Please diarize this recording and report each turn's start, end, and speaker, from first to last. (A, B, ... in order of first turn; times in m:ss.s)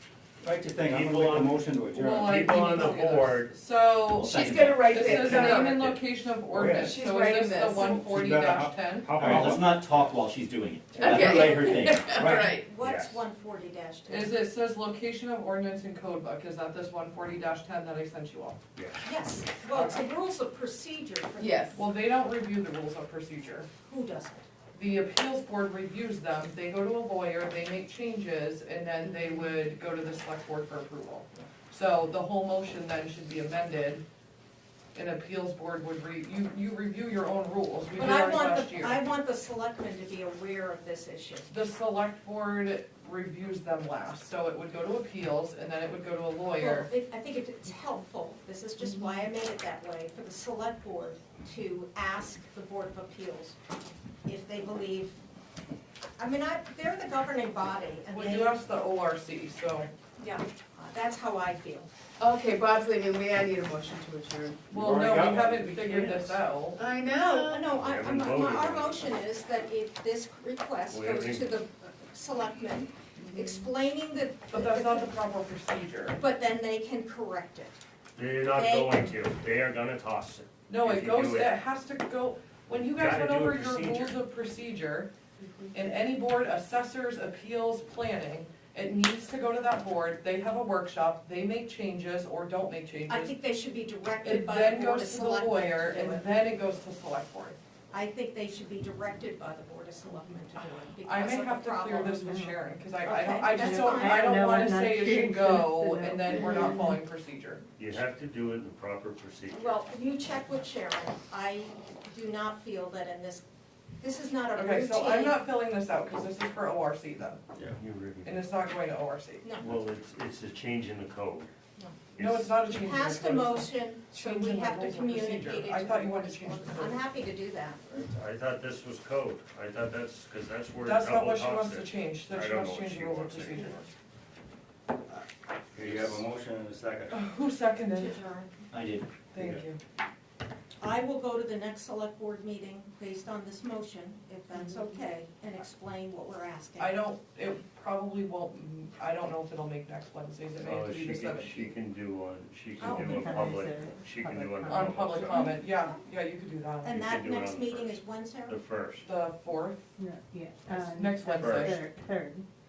0:00.4-0:02.2 A
0:00.5-0:02.5 B
0:00.8-0:04.0 C
0:01.9-0:04.4 D
0:04.2-0:05.5 A
0:04.2-0:06.0 E
0:04.9-0:09.2 D
0:06.5-0:06.8 B
0:06.8-0:08.0 E
0:08.0-0:10.1 B
0:08.1-0:12.5 A
0:11.0-0:12.7 E
0:11.0-0:11.6 B
0:11.6-0:14.4 F
0:12.8-0:13.2 C
0:14.1-0:18.6 D
0:18.8-0:19.1 C
0:19.0-0:21.8 F
0:19.7-0:20.0 D
0:21.4-0:21.8 E
0:21.7-0:23.7 D
0:23.8-0:24.5 F
0:24.7-0:34.0 D
0:34.9-0:39.0 D
0:37.9-0:41.5 F
0:41.5-0:46.9 D
0:46.5-0:53.6 F
0:54.2-0:55.2 F
0:56.2-0:58.6 F
0:58.1-0:59.9 D
1:00.2-1:01.9 F
1:02.2-1:04.7 E
1:04.7-1:06.8 D
1:04.8-1:06.2 B
1:06.7-1:07.7 E
1:07.1-1:15.2 F
1:07.7-1:09.1 C
1:10.9-1:11.5 C
1:13.2-1:13.7 E
1:14.5-1:16.2 D
1:16.2-1:17.8 F
1:18.2-1:21.6 C
1:18.5-1:19.1 F
1:20.7-1:25.1 D
1:22.8-1:24.2 C
1:25.7-1:33.3 D
1:33.1-1:36.3 F
1:34.2-1:37.6 D
1:37.9-1:42.1 F
1:41.0-1:47.6 D
1:42.0-1:42.6 G
1:43.0-1:44.3 F
1:43.5-1:47.0 G
1:47.8-1:49.8 C
1:49.5-1:53.4 F
1:54.0-1:55.4 F
1:54.5-1:57.4 D
1:57.6-1:58.5 C
1:58.2-1:59.5 D
1:59.4-1:59.7 F
1:59.6-2:01.5 C
2:02.2-2:02.5 C
2:02.2-2:07.0 D
2:02.6-2:08.1 F
2:08.0-2:13.8 C
2:10.8-2:13.9 D
2:15.8-2:17.1 B
2:15.8-2:16.2 A
2:17.1-2:18.1 D
2:17.9-2:18.5 F
2:18.7-2:19.1 A
2:19.3-2:19.8 D
2:20.8-2:27.0 F
2:26.8-2:31.7 D
2:30.6-2:35.5 C
2:32.8-2:33.6 F
2:32.8-2:35.3 G
2:34.6-2:36.9 D
2:35.2-2:36.0 F
2:36.8-2:38.6 F
2:36.8-2:39.1 C
2:39.0-2:39.8 D
2:40.0-2:42.4 G
2:40.7-2:41.8 D
2:41.4-2:41.8 C